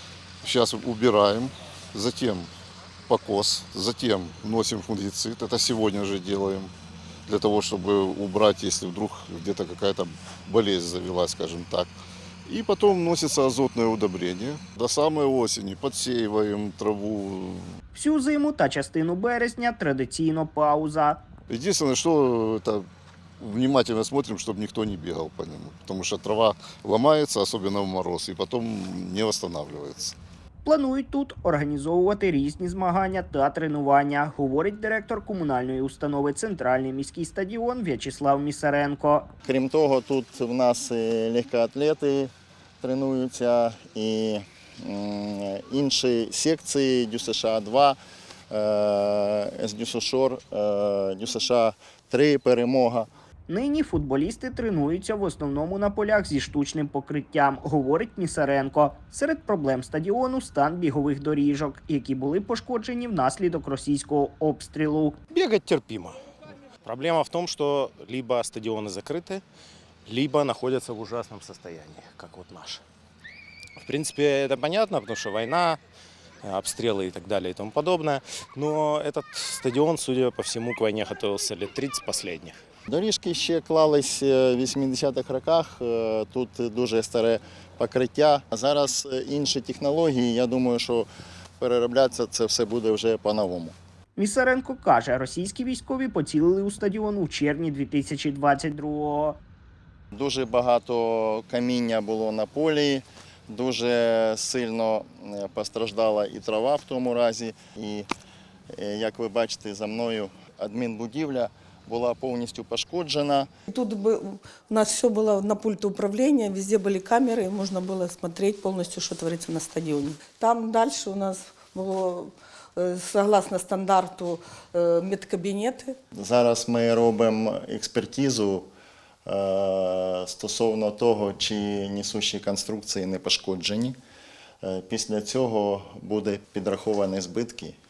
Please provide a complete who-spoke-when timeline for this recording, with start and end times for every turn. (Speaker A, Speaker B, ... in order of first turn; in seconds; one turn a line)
Speaker A: 0.4-2.5
Speaker A: 3.1-6.7
Speaker A: 7.3-11.9
Speaker A: 12.4-17.7
Speaker B: 17.9-21.2
Speaker A: 21.5-22.9
Speaker A: 23.4-30.1
Speaker B: 30.6-39.3
Speaker C: 39.4-48.0
Speaker C: 48.5-53.1
Speaker B: 53.5-65.2
Speaker D: 65.3-66.2
Speaker D: 66.8-69.4
Speaker D: 70.0-72.8
Speaker D: 73.8-75.8
Speaker D: 76.4-82.6
Speaker C: 82.9-91.1
Speaker C: 91.6-93.7
Speaker B: 94.2-99.4
Speaker C: 100.1-108.1
Speaker C: 108.7-113.5
Speaker E: 113.7-126.0
Speaker C: 126.1-128.7
Speaker C: 129.2-133.9
Speaker C: 134.6-137.8